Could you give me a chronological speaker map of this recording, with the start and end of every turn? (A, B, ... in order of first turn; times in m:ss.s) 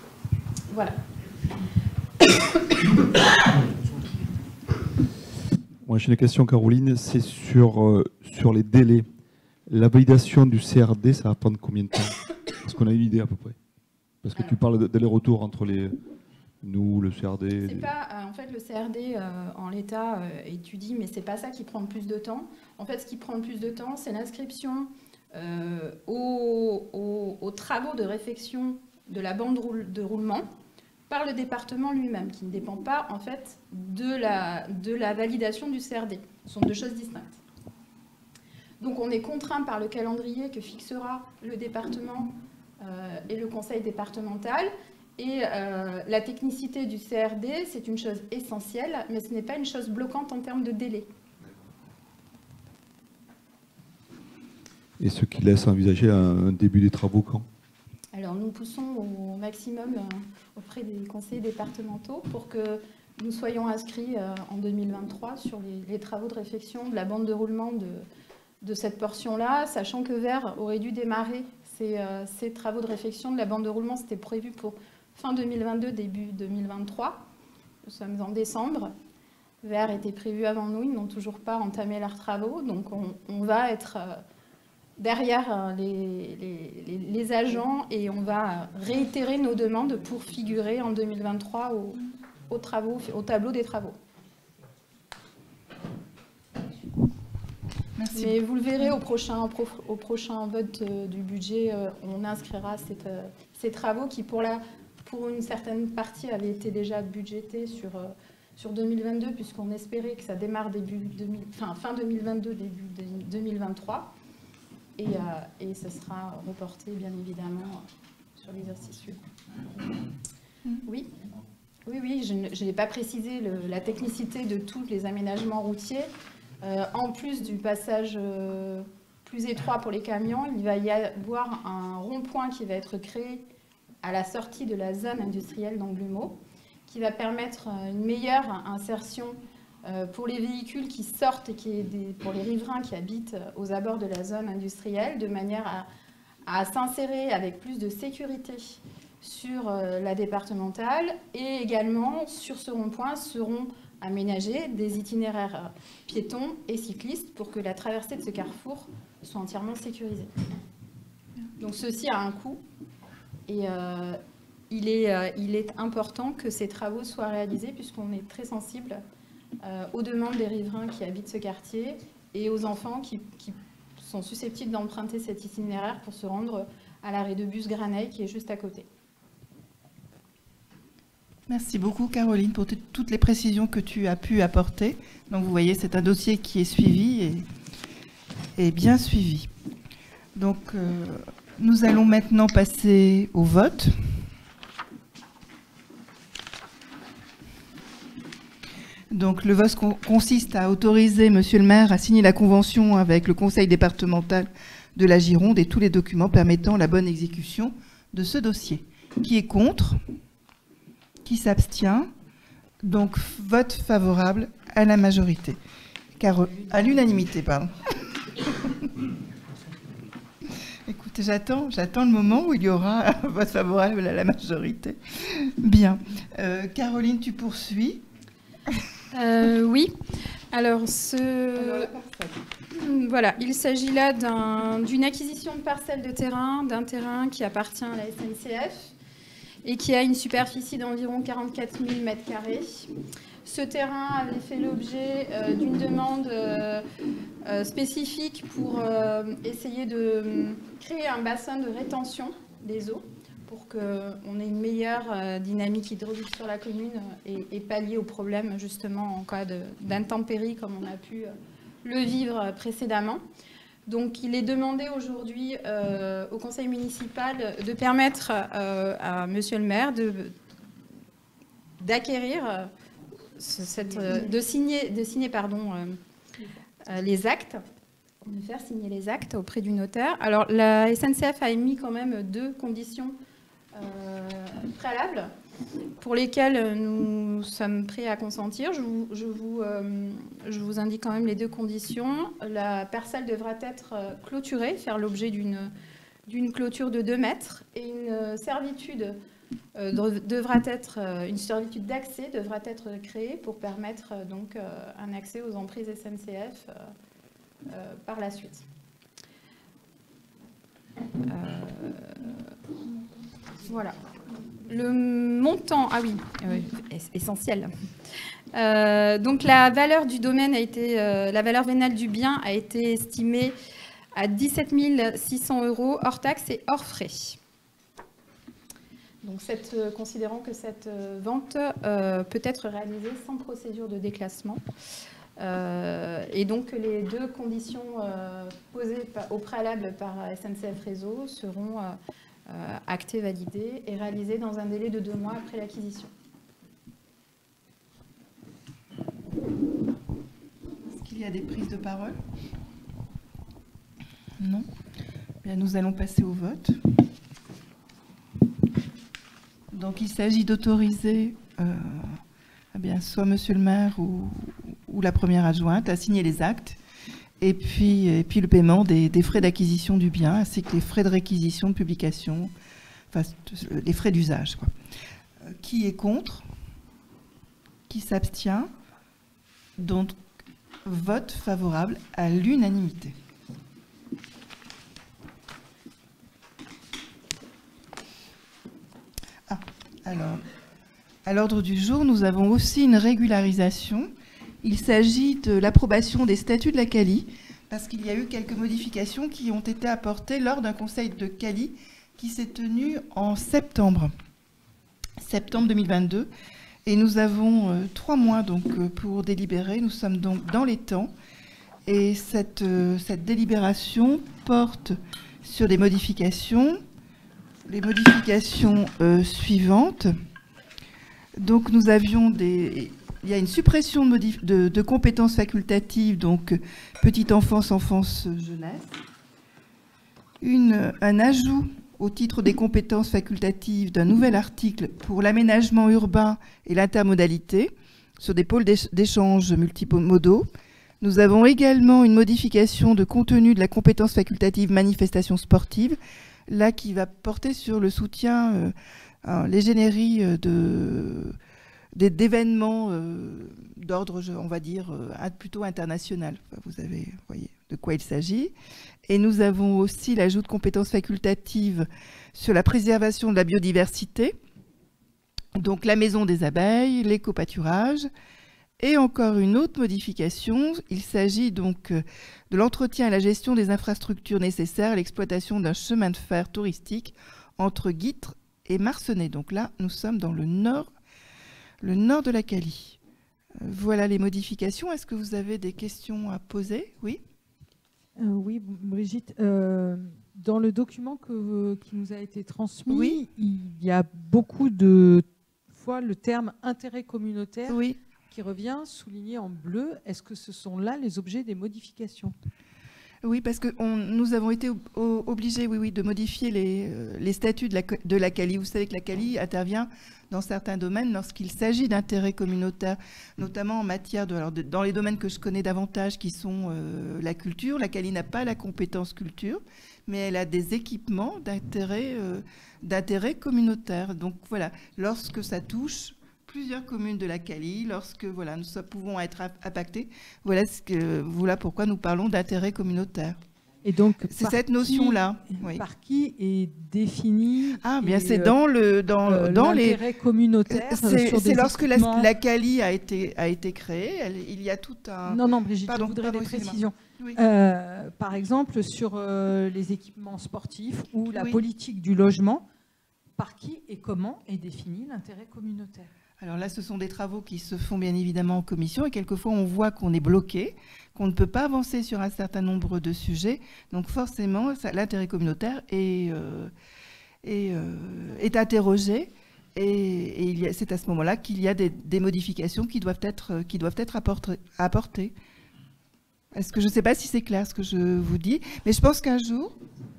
0:00.7-0:01.0 A
0:05.9-0:09.1 B
0:09.7-0:13.6 B
0:14.2-0:16.0 B
0:16.6-0:17.9 B
0:17.6-0:30.5 A
0:31.1-0:37.4 A
0:38.8-0:51.1 A
0:55.0-0:57.5 B
0:58.1-1:08.1 A
1:08.6-1:17.2 A
1:17.8-1:18.9 A
1:19.6-1:24.2 A
1:25.0-1:34.0 A
1:38.0-1:38.9 C
1:38.1-1:54.1 A
1:55.0-1:57.8 A
1:58.4-1:59.2 A
2:00.8-2:01.1 A
2:01.9-2:06.1 A
2:06.6-2:13.5 A
2:14.0-2:25.9 A
2:26.5-2:40.3 A
2:41.6-2:42.6 A
2:43.5-2:44.2 A
2:44.7-2:49.0 A
2:49.6-2:58.9 A
3:01.5-3:07.5 C
3:08.6-3:09.5 C
3:10.4-3:14.2 C
3:19.1-3:30.0 C
3:31.2-3:32.1 C
3:32.8-3:35.6 C
3:36.2-3:38.0 C
3:38.6-3:38.9 C
3:40.9-3:48.0 C
3:49.1-3:50.0 A
3:50.5-3:51.9 A
3:51.6-3:52.4 C
3:52.8-3:58.9 A
3:59.6-4:02.9 A
4:03.4-4:06.8 A
4:07.4-4:21.3 A
4:21.8-4:23.2 A
4:23.9-4:30.4 A
4:31.8-4:32.7 A
4:33.4-4:36.0 A
4:36.9-4:37.6 A
4:38.2-4:43.2 A
4:43.7-4:45.3 A
4:46.0-4:55.7 A
4:56.3-4:59.2 A
4:59.8-5:06.9 A
5:07.7-5:08.6 A
5:11.3-5:12.4 A
5:13.7-5:14.0 A
5:14.6-5:17.7 A
5:18.6-5:23.6 A
5:24.2-5:27.4 A
5:29.2-5:34.6 A
5:35.4-5:46.1 A
5:50.9-5:52.2 C
5:54.4-5:54.7 C
5:55.4-5:56.8 C
5:59.7-6:02.2 C
6:02.7-6:06.8 C
6:07.4-6:12.5 C
6:13.1-6:14.7 C
6:15.4-6:16.5 C
6:17.9-6:18.7 C
6:19.8-6:20.2 C
6:20.8-6:23.2 C
6:29.5-6:30.4 C
6:31.3-6:34.1 C
6:34.6-6:44.1 C
6:45.2-6:46.3 C
6:46.9-6:51.1 C
6:51.9-6:56.8 C
6:57.7-7:00.2 C
7:01.4-7:09.0 C
7:10.4-7:20.5 C
7:21.0-7:31.4 C
7:32.0-7:38.5 C
7:39.1-7:44.4 C
7:45.6-7:48.1 C
7:48.8-8:00.9 C
8:01.8-8:03.0 C
8:03.6-8:07.2 C
8:08.2-8:22.4 D
8:12.9-8:13.2 C
8:17.7-8:18.0 C
8:23.2-8:53.4 C
8:53.8-8:58.6 D
8:54.3-8:55.8 C
8:57.8-9:00.0 C
8:59.2-9:02.3 D
9:00.7-9:07.4 C
9:05.3-9:12.6 D
9:11.3-9:11.6 C
9:13.4-9:16.1 D
9:16.4-9:26.7 C
9:27.4-9:35.4 C
9:36.5-9:39.8 C